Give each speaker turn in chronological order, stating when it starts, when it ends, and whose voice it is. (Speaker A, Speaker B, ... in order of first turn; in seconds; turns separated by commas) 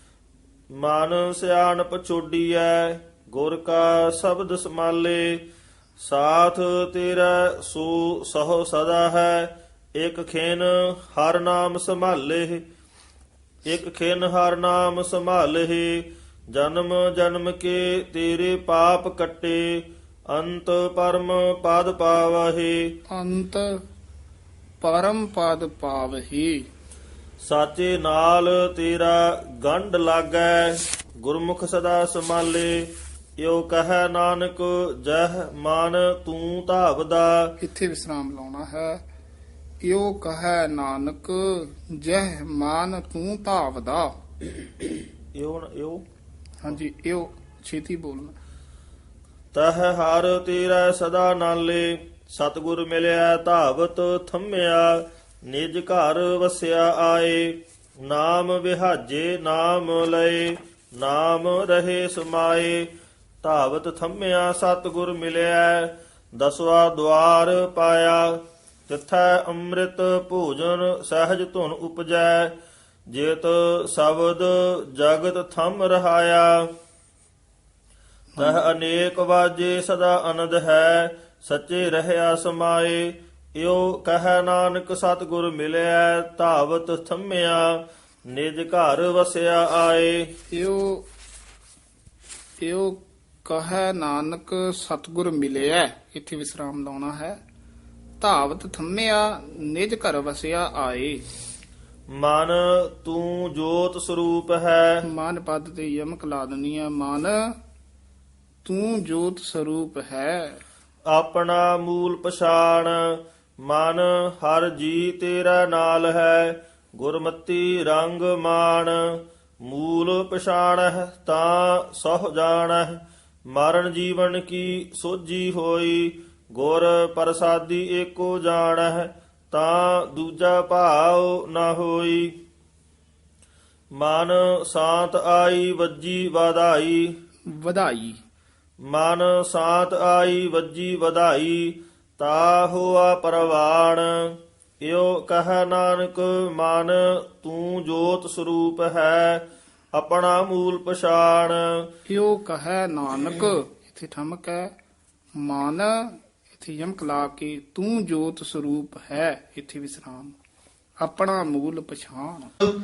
Speaker A: 0.7-5.4, Speaker A: 6.0-12.6, Speaker A: 13.7-23.0, Speaker B: 23.1-23.7, Speaker B: 24.8-26.6, Speaker A: 27.4-37.5, Speaker B: 37.6-39.0, Speaker B: 39.8-44.1, Speaker A: 45.3-46.0, Speaker B: 46.6-48.4, Speaker A: 49.5-62.9, Speaker A: 63.4-72.5, Speaker A: 73.1-76.7, Speaker B: 78.4-78.6, Speaker A: 78.4-90.3, Speaker B: 90.5-91.1, Speaker B: 92.6-97.4, Speaker B: 98.2-101.2, Speaker A: 102.1-105.0, Speaker B: 105.0-107.4, Speaker B: 108.6-110.6, Speaker A: 111.1-132.4, Speaker A: 133.9-137.2, Speaker B: 137.5-138.2, Speaker A: 138.8-151.8, Speaker B: 152.1-154.7, Speaker B: 155.4-160.3, Speaker B: 161.0-162.5